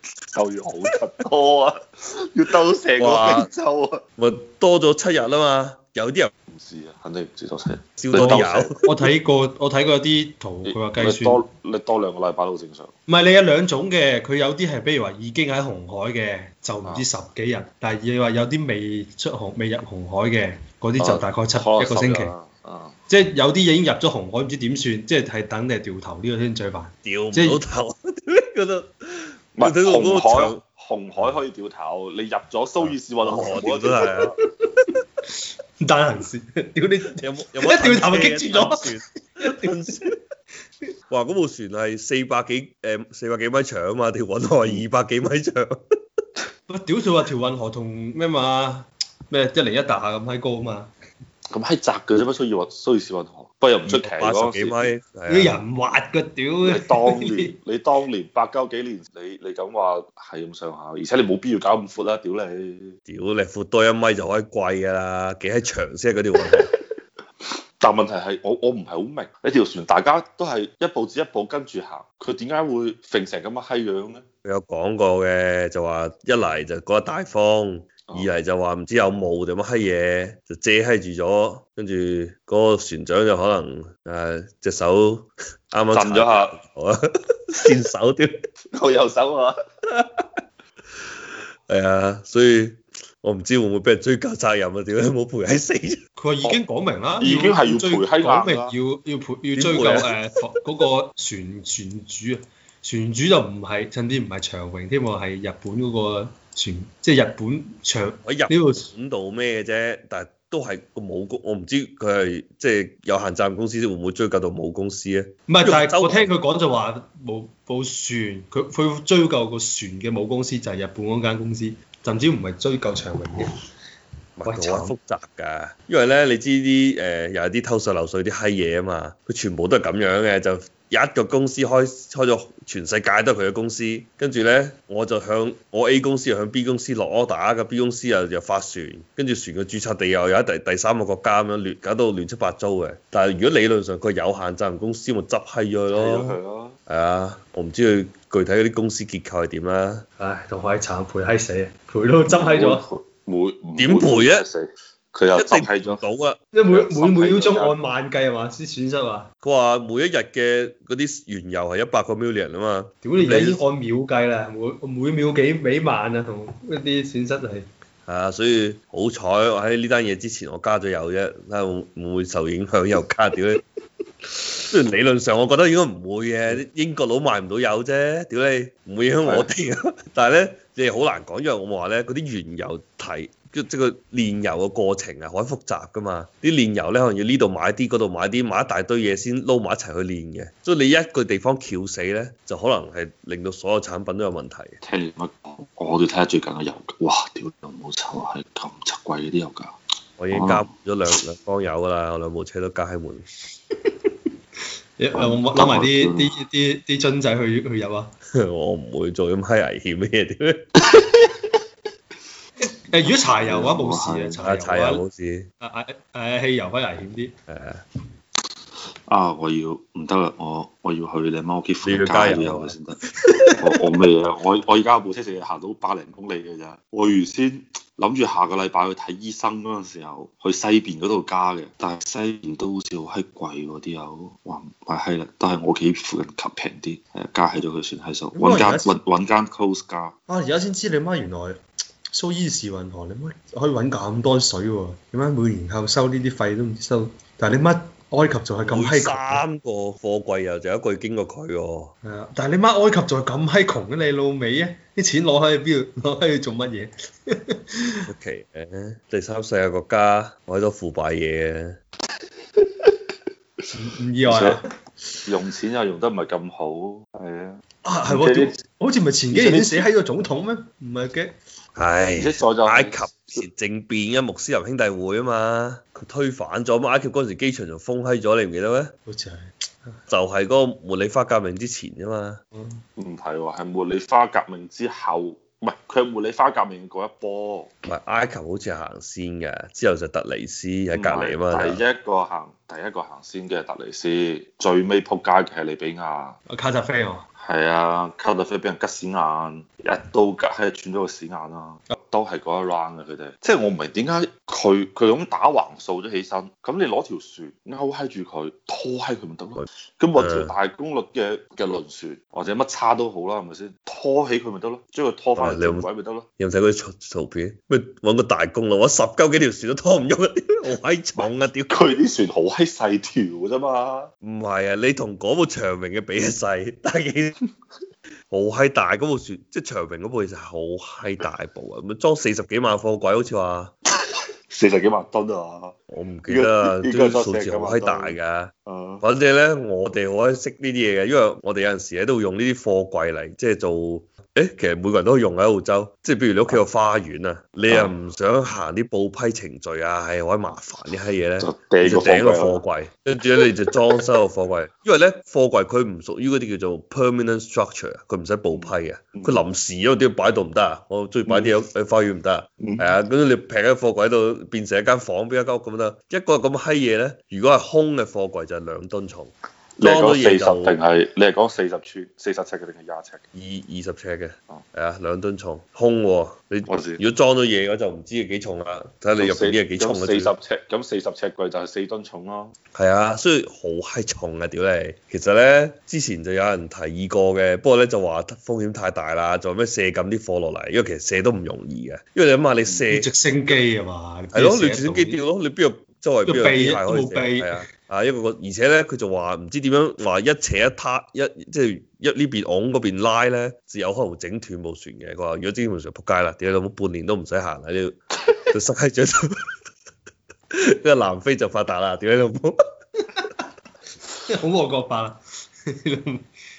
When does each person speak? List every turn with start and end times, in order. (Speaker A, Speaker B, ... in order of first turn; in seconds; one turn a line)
Speaker A: 0.3-4.0
Speaker B: 3.0-3.5
Speaker B: 4.2-6.3
Speaker A: 6.5-8.8
Speaker B: 8.0-8.8
Speaker C: 8.2-11.4
Speaker A: 10.7-12.9
Speaker C: 13.1-22.3
Speaker A: 21.0-23.0
Speaker C: 23.1-27.6
Speaker B: 27.0-30.6
Speaker A: 29.6-34.3
Speaker B: 32.8-34.4
Speaker C: 35.8-40.1
Speaker B: 37.2-40.1
Speaker B: 41.1-45.8
Speaker C: 46.7-50.9
Speaker A: 51.5-54.9
Speaker B: 53.9-55.6
Speaker C: 55.3-57.6
Speaker A: 56.6-62.9
Speaker B: 63.1-66.7
Speaker A: 66.5-66.7
Speaker A: 67.8-74.2
Speaker B: 74.4-87.0
Speaker A: 85.9-86.6
Speaker B: 87.5-88.3
Speaker A: 88.7-89.5
Speaker B: 91.7-96.0
Speaker C: 96.2-108.9
Speaker A: 97.2-98.7
Speaker B: 99.5-100.2
Speaker B: 108.2-116.3
Speaker C: 115.5-123.5
Speaker B: 124.4-150.1
Speaker C: 124.5-125.0
Speaker A: 145.9-146.8
Speaker C: 150.2-152.8
Speaker A: 152.3-156.0
Speaker B: 153.8-154.4
Speaker B: 155.3-156.4
Speaker C: 156.5-159.3
Speaker A: 156.7-157.8
Speaker B: 159.4-163.6
Speaker C: 163.0-167.7
Speaker B: 168.1-173.6
Speaker B: 174.7-194.8
Speaker A: 179.2-179.5
Speaker A: 194.8-199.8
Speaker B: 200.2-203.2
Speaker A: 200.3-200.7
Speaker C: 205.0-208.1
Speaker A: 205.2-206.3
Speaker B: 208.4-210.6
Speaker C: 212.9-215.0
Speaker A: 213.4-214.4
Speaker B: 214.4-215.5
Speaker C: 215.6-217.3
Speaker B: 217.5-217.8
Speaker A: 219.1-223.0
Speaker B: 221.8-222.8
Speaker C: 223.3-223.5
Speaker A: 223.6-240.2
Speaker C: 238.3-239.0
Speaker C: 240.3-241.6
Speaker C: 242.1-249.4
Speaker B: 248.6-251.9
Speaker C: 252.0-257.9
Speaker B: 258.1-261.8
Speaker C: 263.7-264.6
Speaker A: 264.2-264.6
Speaker A: 265.3-268.6
Speaker C: 267.8-271.3
Speaker A: 269.3-269.9
Speaker B: 271.8-278.9
Speaker A: 272.2-273.4
Speaker C: 279.1-279.4
Speaker B: 280.1-282.4
Speaker C: 282.6-282.8
Speaker A: 283.0-287.7
Speaker B: 287.9-291.8
Speaker A: 290.9-296.4
Speaker C: 296.5-297.2
Speaker A: 297.4-316.2
Speaker B: 310.2-310.5
Speaker B: 315.4-315.9
Speaker B: 316.4-321.8
Speaker A: 321.2-324.1
Speaker B: 324.2-327.4
Speaker B: 328.3-333.7
Speaker A: 334.5-335.8
Speaker B: 335.9-370.8
Speaker A: 336.3-339.0
Speaker A: 347.7-347.9
Speaker A: 351.4-352.6
Speaker A: 358.5-359.4
Speaker A: 361.3-361.6
Speaker A: 362.6-362.9
Speaker A: 369.8-373.2
Speaker B: 373.3-380.3
Speaker A: 376.7-377.0
Speaker A: 379.2-382.5
Speaker B: 382.7-393.1
Speaker C: 392.9-395.2
Speaker B: 394.3-408.0
Speaker C: 396.3-397.6
Speaker B: 408.5-409.4
Speaker B: 410.5-412.6
Speaker C: 414.2-415.2
Speaker C: 415.8-416.2